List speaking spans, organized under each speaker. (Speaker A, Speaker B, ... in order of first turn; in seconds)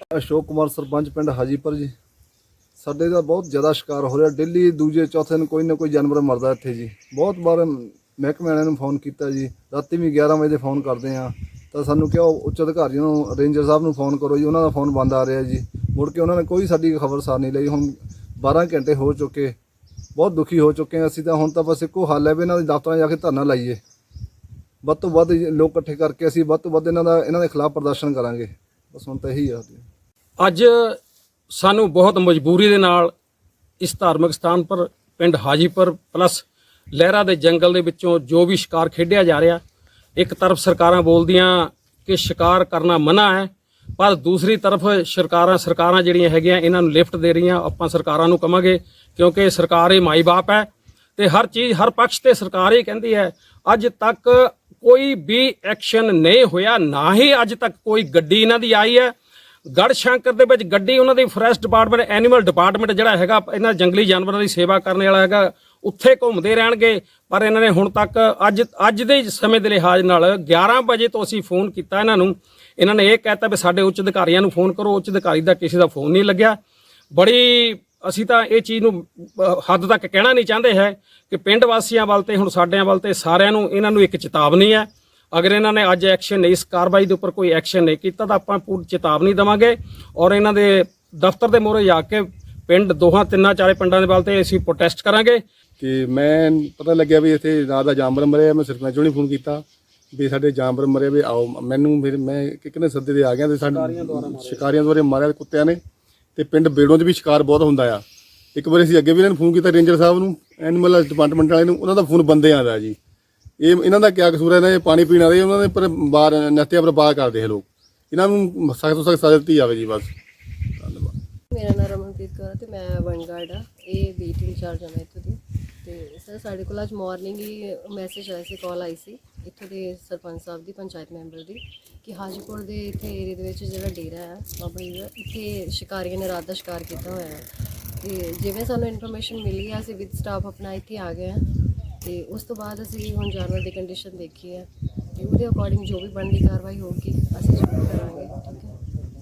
Speaker A: 0.1-1.9, 2.8-19.6, 20.2-23.8, 24.8-29.9
Speaker B: 30.4-31.0, 31.5-33.1, 33.8-39.6, 40.2-59.1, 59.7-76.6, 77.1-95.4, 103.6-104.7
Speaker C: 95.8-99.6, 100.1-105.8, 106.4-108.0, 108.5-113.0, 113.6-120.1, 120.8-121.1
Speaker D: 121.5-137.5, 138.0-141.5, 142.0-148.7